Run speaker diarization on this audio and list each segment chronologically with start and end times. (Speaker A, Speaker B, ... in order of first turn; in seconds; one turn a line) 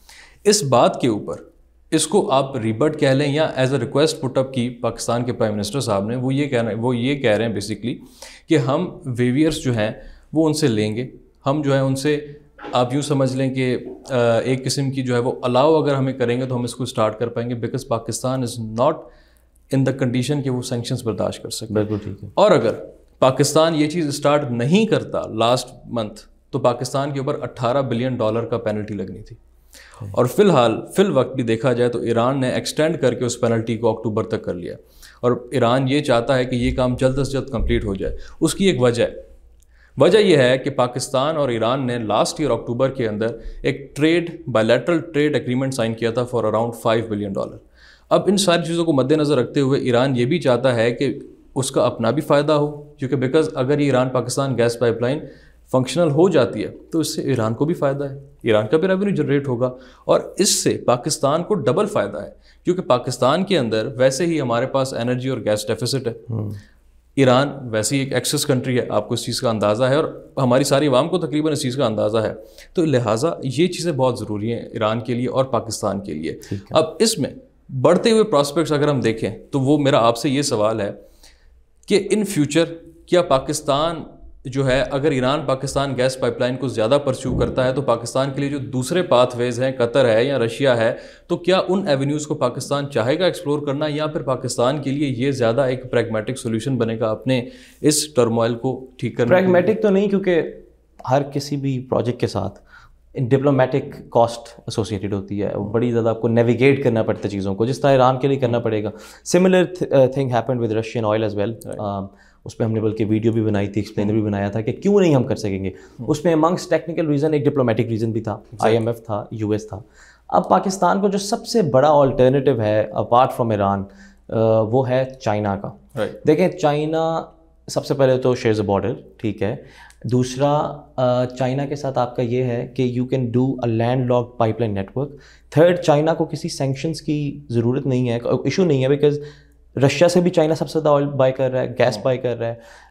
Speaker A: 0.4-19.1
Speaker A: 19.7-29.4
Speaker B: 21.7-22.3
Speaker A: 30.0-39.2
Speaker A: 40.0-66.4
Speaker B: 66.3-66.6
Speaker A: 67.2-81.0
Speaker B: 76.5-76.8
Speaker A: 81.9-99.7
Speaker B: 99.3-102.6
Speaker B: 103.1-139.2
Speaker B: 139.8-142.6